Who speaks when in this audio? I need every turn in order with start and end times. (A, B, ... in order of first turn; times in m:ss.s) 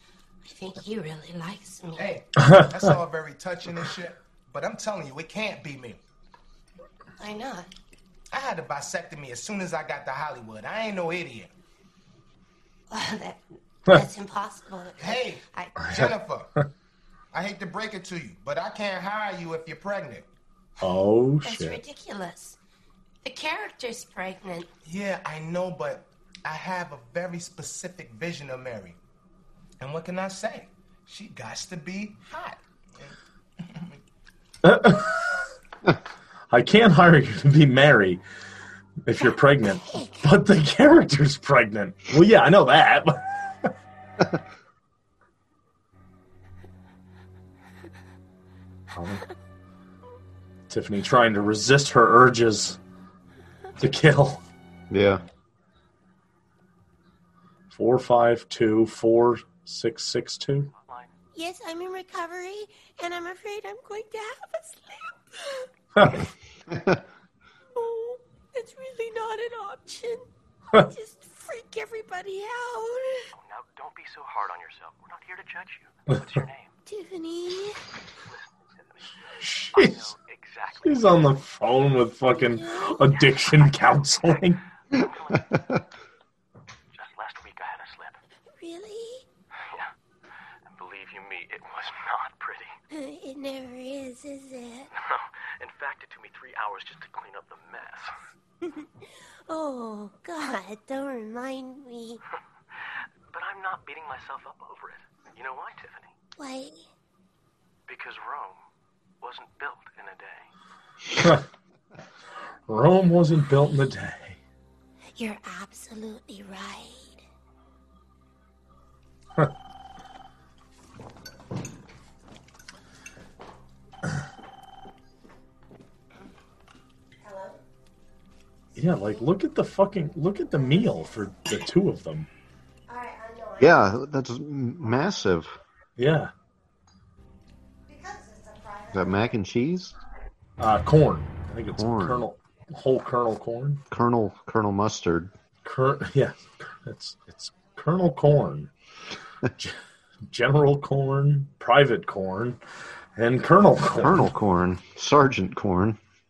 0:00.4-0:02.2 A
0:01.9-0:06.0 B
0:02.4-0:02.8 C
0:07.2-0:07.7 A
0:08.3-0:11.5 B
0:12.9-0:15.8 A
0:15.0-0:16.5 B
0:15.8-0:16.6 C
0:17.3-0:20.3 B
0:20.8-0:21.8 C
0:21.4-0:22.6 A
0:23.2-0:24.7 A
0:24.8-0:29.0 B
0:29.8-0:34.0 B
0:34.6-0:35.3 C
0:36.5-0:38.2 C
0:39.0-0:43.2 C
0:39.2-0:40.3 A
0:48.9-0:49.2 C
0:50.7-0:52.8 C
0:53.8-0:54.4 C
0:54.9-0:55.2 D
0:57.7-1:00.7 C
1:01.3-1:05.2 A
1:06.0-1:06.3 C
1:07.8-1:13.1 A
1:13.3-1:16.8 E
1:16.9-1:17.8 A
1:18.2-1:21.4 E
1:19.4-1:20.1 C
1:20.8-1:24.6 C
1:22.4-1:23.7 A
1:24.9-1:25.8 E
1:26.9-1:28.2 E
1:28.5-1:29.2 A
1:30.7-1:32.7 E
1:32.9-1:34.9 A
1:34.9-1:38.2 E
1:38.6-1:42.2 A
1:43.3-1:46.1 E
1:46.4-1:46.9 A
1:47.9-1:48.6 E
1:49.2-1:50.5 E
1:52.7-1:54.4 C
1:55.1-1:57.2 A
2:07.2-2:07.6 A
2:08.8-2:12.3 C
2:12.9-2:13.8 A
2:13.6-2:15.6 D
2:16.0-2:16.3 C
2:17.9-2:18.9 A
2:18.9-2:19.9 D
2:20.6-2:23.8 C
2:21.8-2:22.2 D
2:23.9-2:25.3 D
2:25.6-2:28.7 C
2:30.3-2:32.6 C
2:33.2-2:34.3 C
2:34.0-2:36.0 D